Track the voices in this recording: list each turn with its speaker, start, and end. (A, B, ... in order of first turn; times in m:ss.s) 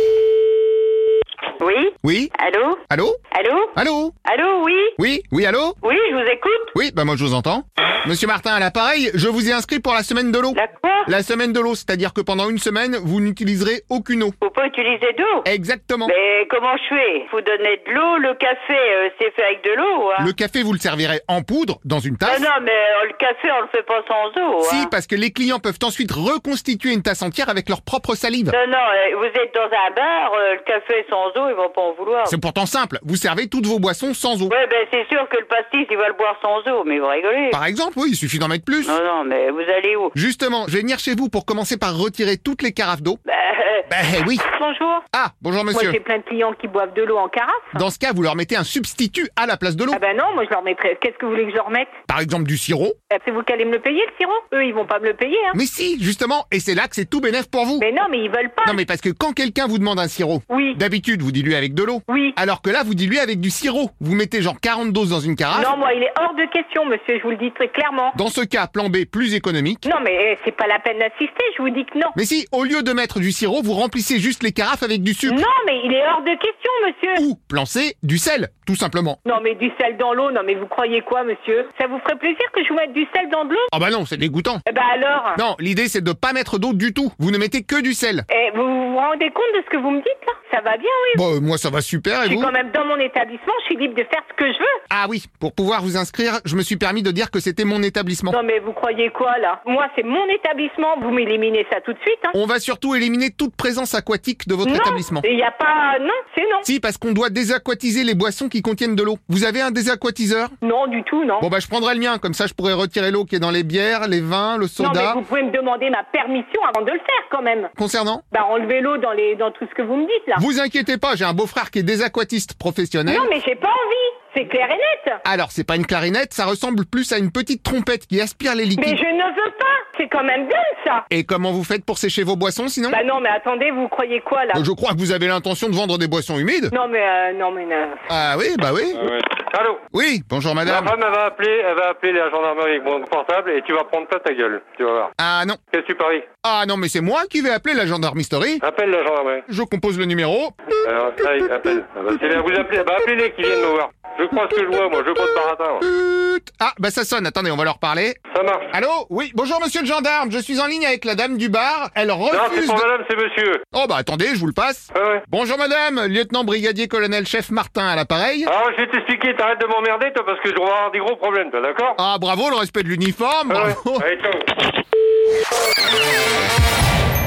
0:01.6-0:02.8 A
0:02.0-0:02.3 B
0:02.9-0:03.2 B
0:03.3-0:03.8 A
0:03.8-0:04.2 B
0:04.3-0:05.0 A
0:05.0-0:05.8 B
0:05.8-0:06.7 A
0:06.8-0:14.4 B
0:10.5-0:11.1 A
0:14.4-0:15.5 A
0:15.4-0:16.1 B
0:16.1-0:20.3 A
0:20.2-0:22.5 B
0:22.2-0:24.9 A
0:24.6-0:28.6 B
0:28.5-0:32.4 A
0:32.3-0:34.5 B
0:34.5-0:37.6 A
0:37.5-0:39.0 B
0:38.8-0:40.1 A
0:40.1-0:43.2 B
0:43.3-0:43.9 A
0:43.9-0:44.4 B
0:44.4-0:45.0 C
0:45.1-0:46.0 B
0:45.7-0:47.8 C
0:47.7-0:50.0 B
0:49.9-0:52.0 C
0:52.1-0:53.0 B
0:53.1-0:55.6 C
0:55.5-0:57.8 B
0:57.8-0:58.8 C
0:58.6-1:05.7 B
1:00.5-1:00.8 C
1:02.1-1:02.4 C
1:05.5-1:08.2 C
1:08.1-1:09.9 B
1:09.8-1:12.2 C
1:12.1-1:15.4 B
1:15.3-1:17.2 C
1:17.2-1:19.2 B
1:19.2-1:23.7 C
1:23.7-1:24.6 B
1:24.7-1:25.4 C
1:25.4-1:28.3 B
1:28.3-1:31.2 C
1:31.1-1:32.5 B
1:32.2-1:34.7 C
1:34.9-1:38.4 B
1:38.3-1:42.4 C
1:42.3-1:45.3 B
1:44.6-1:46.7 C
1:46.6-1:50.5 B
1:50.6-1:51.5 C
1:51.4-1:55.2 B
1:54.8-1:57.7 C
1:57.8-1:58.2 B
1:58.3-2:00.4 C
2:00.4-2:03.3 B
2:03.1-2:05.2 C
2:05.2-2:09.0 B
2:08.8-2:11.1 C
2:11.1-2:13.0 B
2:12.9-2:14.6 C
2:14.5-2:16.7 B
2:16.7-2:18.0 C
2:18.1-2:19.1 B
2:19.0-2:19.8 D
2:19.9-2:20.9 B
2:20.6-2:25.1 D
2:25.2-2:25.6 B
2:25.7-2:26.3 D
2:26.4-2:28.6 B
2:28.6-2:29.4 D
2:29.5-2:33.7 B
2:30.8-2:35.8 D
2:34.3-2:38.2 B
2:38.3-2:38.7 D
2:38.7-2:42.9 B
2:42.3-2:43.6 D
2:43.7-2:48.5 B
2:44.9-2:45.2 D
2:48.4-2:52.0 D
2:52.0-2:54.1 B
2:53.5-2:54.5 D